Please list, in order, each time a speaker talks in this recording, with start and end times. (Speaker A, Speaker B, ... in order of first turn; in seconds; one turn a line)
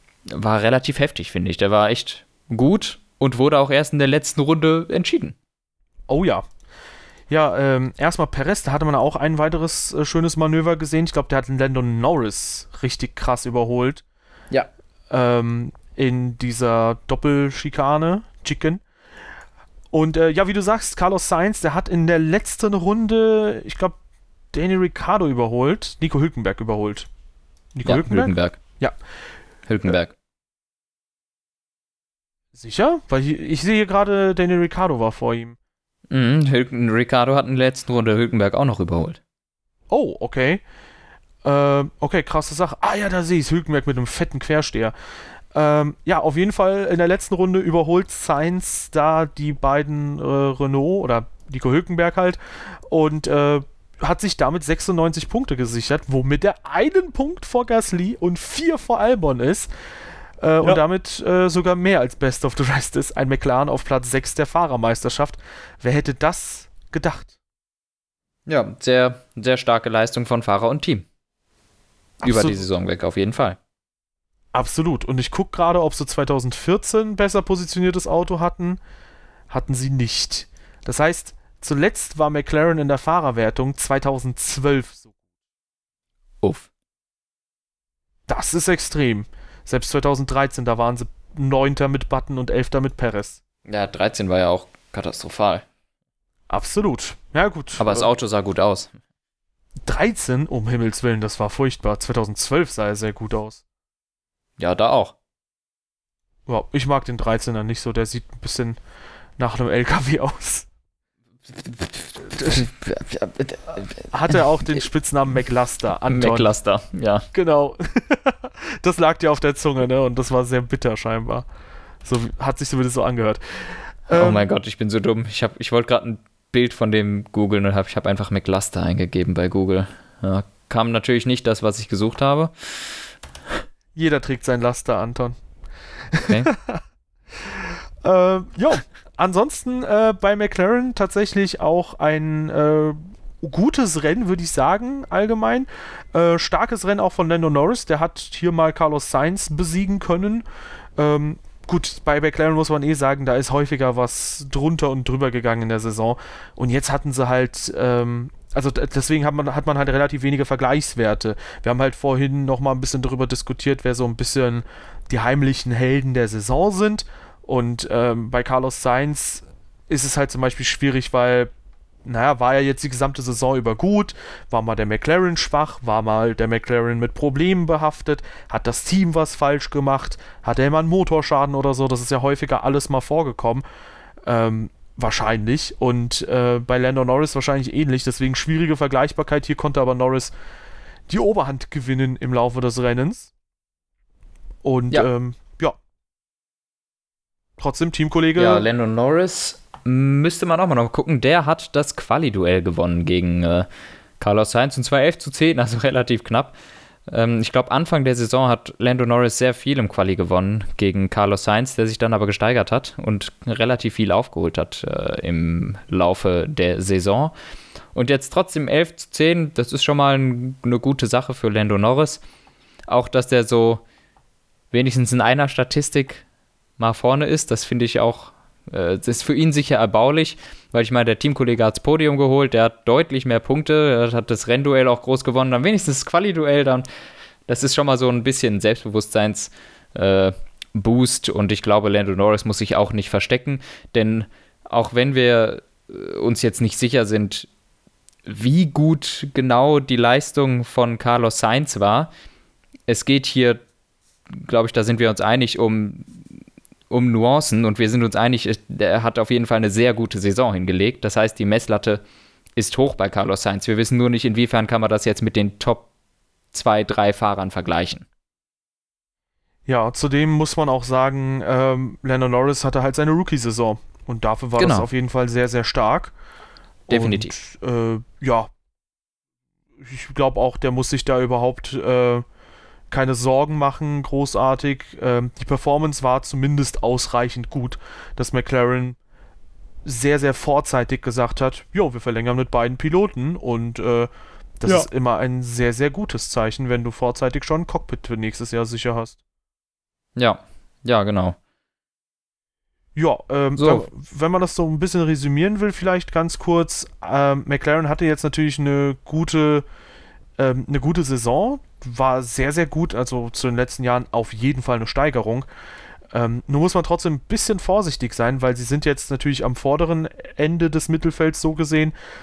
Speaker A: 0.3-5.3
Speaker B: 6.1-6.4
Speaker B: 7.3-14.0
Speaker B: 15.1-18.8
Speaker B: 19.9-24.0
Speaker B: 24.5-27.1
Speaker B: 27.7-28.9
Speaker A: 27.9-28.6
Speaker A: 29.7-30.1
Speaker B: 32.5-35.6
Speaker A: 36.1-39.2
Speaker B: 39.9-40.6
Speaker B: 41.4-44.9
Speaker B: 45.5-59.7
Speaker B: 60.4-67.3
Speaker A: 68.5-71.0
Speaker B: 72.2-72.6
Speaker A: 72.2-73.6
Speaker B: 74.5-78.8
Speaker B: 79.5-85.1
Speaker A: 86.4-86.7
Speaker B: 88.3-93.4
Speaker A: 93.7-95.6
Speaker B: 96.5-98.0
Speaker A: 97.8-98.9
Speaker B: 99.8-103.6
Speaker A: 104.6-105.1
Speaker B: 106.5-108.8
Speaker B: 109.4-110.7
Speaker A: 111.6-114.3
Speaker B: 114.0-116.5
Speaker A: 116.1-117.2
Speaker B: 117.3-121.5
Speaker B: 122.0-123.4
Speaker B: 124.1-124.4
Speaker A: 124.1-132.5
Speaker B: 133.9-135.3
Speaker B: 136.1-136.8
Speaker B: 137.4-150.4
Speaker B: 151.0-171.5
Speaker B: 172.1-183.6
Speaker B: 184.2-190.3
Speaker B: 191.1-193.3
Speaker B: 194.6-195.8
Speaker B: 197.6-198.6
Speaker A: 198.4-203.7
Speaker A: 204.2-206.5
Speaker A: 207.1-217.3
Speaker A: 217.9-222.2
Speaker A: 222.9-223.8
Speaker A: 224.7-226.2
Speaker A: 226.8-236.8
Speaker A: 237.5-247.5
Speaker A: 248.2-252.1
Speaker A: 252.9-253.6
Speaker A: 254.3-256.3
Speaker A: 256.9-262.0
Speaker A: 262.6-265.9
Speaker A: 266.5-268.0
Speaker B: 269.7-276.1
Speaker A: 274.6-274.9
Speaker A: 276.9-277.3
Speaker B: 276.9-278.5
Speaker B: 279.8-282.2
Speaker B: 282.9-289.0
Speaker B: 289.8-294.1
Speaker B: 294.6-299.2
Speaker A: 300.1-301.4
Speaker B: 302.9-309.6
Speaker A: 303.6-303.9
Speaker B: 310.4-315.5
Speaker B: 316.1-321.9